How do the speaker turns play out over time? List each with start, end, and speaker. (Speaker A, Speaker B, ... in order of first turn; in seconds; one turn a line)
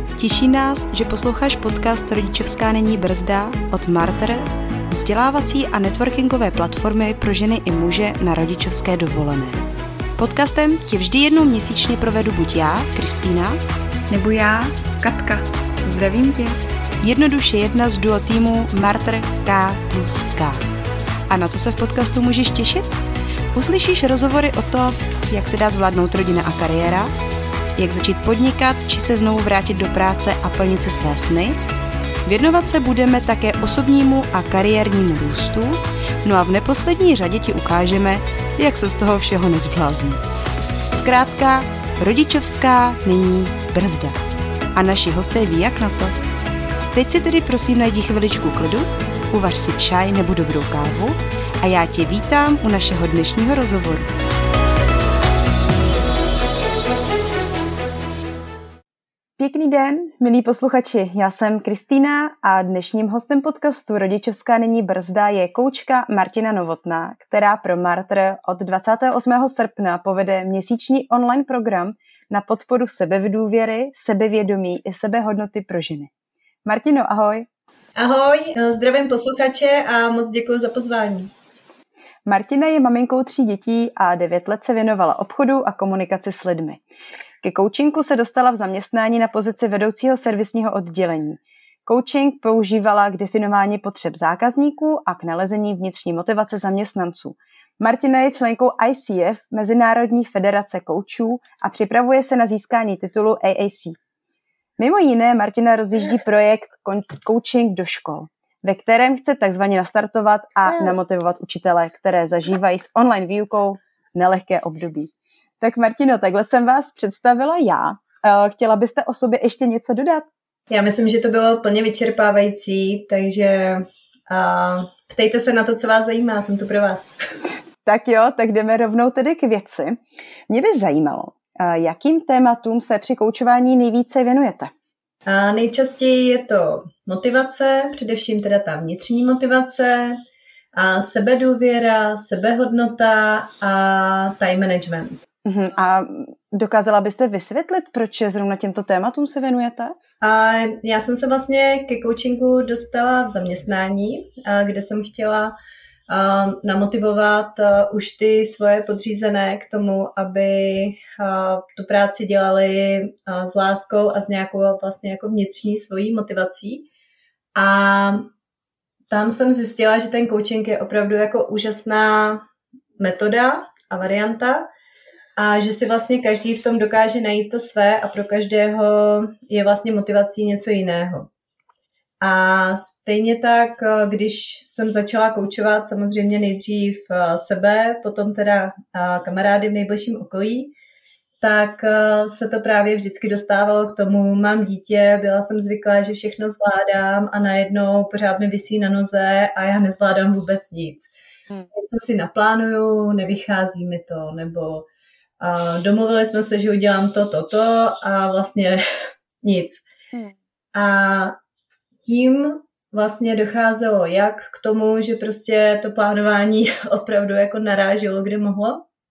Speaker A: 0.2-9.7
Speaker A: 10.2-13.6
Speaker B: 14.1-16.6
Speaker A: 17.0-20.6
Speaker A: 21.3-22.9
Speaker A: 23.5-27.1
Speaker A: 27.8-31.6
Speaker A: 32.2-40.2
Speaker A: 40.9-44.2
Speaker A: 44.7-46.1
Speaker A: 46.9-54.1
Speaker A: 59.4-76.1
Speaker A: 76.6-77.5
Speaker C: 78.0-81.3
Speaker A: 82.2-86.8
Speaker A: 87.4-104.0
Speaker A: 104.8-120.2
Speaker C: 120.7-127.1
Speaker A: 127.8-134.7
Speaker C: 135.3-140.2
Speaker C: 140.7-145.2
Speaker A: 145.4-149.9
Speaker C: 150.2-155.5
Speaker C: 156.1-166.9
Speaker C: 167.5-168.3
Speaker C: 169.1-172.4
Speaker C: 173.0-174.7
Speaker C: 175.4-181.3
Speaker C: 182.2-190.7
Speaker C: 191.4-201.1
Speaker C: 201.7-204.8
Speaker C: 205.4-208.8
Speaker C: 209.4-209.8
Speaker C: 210.7-211.3
Speaker C: 212.0-218.8